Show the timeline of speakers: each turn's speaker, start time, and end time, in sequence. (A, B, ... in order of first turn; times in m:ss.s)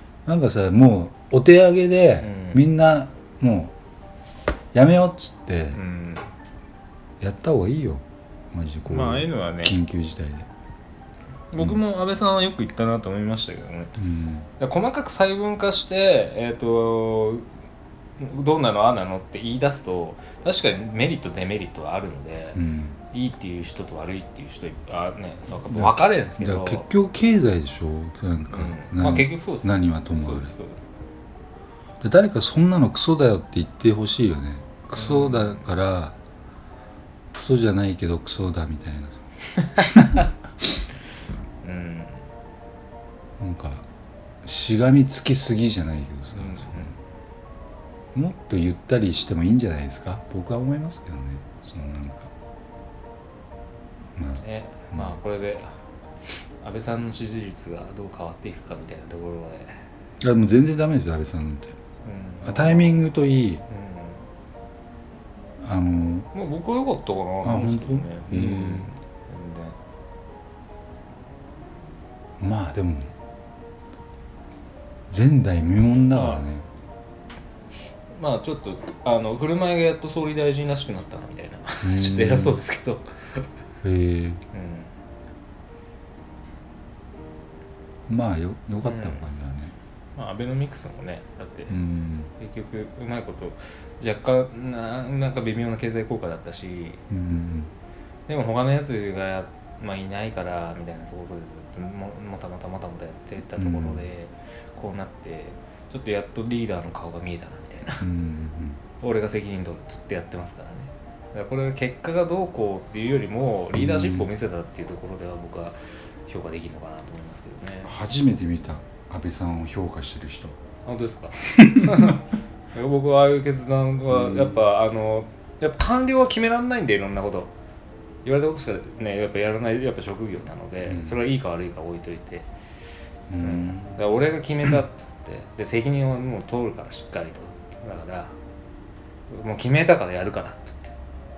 0:00.3-0:03.7 A
0:02.2-0:02.6 B
0:04.7-0:05.8 A
0:05.7-0:06.3 B
0:07.2-0:10.5 A
0:08.9-0:09.8 B
0:11.5-0:14.0 B
0:14.0-0:14.5 A
0:14.6-0:17.5 B
0:18.2-0:22.6 B
0:22.6-0:23.0 A
0:23.1-0:26.9 B
0:25.7-0:30.5 A
0:28.5-0:30.9 B
0:32.0-0:36.2 A
0:34.9-0:35.7 B
0:37.3-0:39.2 A
0:39.6-0:40.2 B
0:39.8-0:40.3 A
0:41.6-0:42.2 B
0:43.4-0:43.8 A
0:44.4-0:46.9 A
0:46.4-0:47.0 B
0:48.1-0:52.3 A
0:54.2-0:54.4 A
0:54.4-0:55.8 B
0:56.6-0:59.8 B
1:00.2-1:01.8 A
1:02.0-1:03.0 B
1:02.4-1:03.6 A
1:03.7-1:04.2 B
1:05.6-1:06.3 A
1:06.3-1:09.8 B
1:07.4-1:08.9 A
1:12.4-1:13.1 A
1:15.1-1:16.7 A
1:16.1-1:16.4 B
1:18.1-1:23.5 B
1:21.8-1:22.6 A
1:23.8-1:24.4 A
1:24.5-1:24.9 B
1:28.1-1:29.7 A
1:28.8-1:29.3 B
1:30.2-1:31.8 B
1:31.7-1:32.3 A
1:32.4-1:37.0 B
1:37.1-1:37.7 A
1:38.3-1:48.1 B
1:43.6-1:44.1 A
1:48.0-1:48.8 A
1:49.0-1:57.9 B
1:53.7-1:54.3 A
1:57.8-2:00.6 A
2:00.8-2:07.5 B
2:01.6-2:02.2 A
2:04.1-2:04.6 A
2:08.2-2:12.5 B
2:10.9-2:11.2 A
2:13.3-2:14.0 A
2:13.4-2:18.4 B
2:19.3-2:20.9 B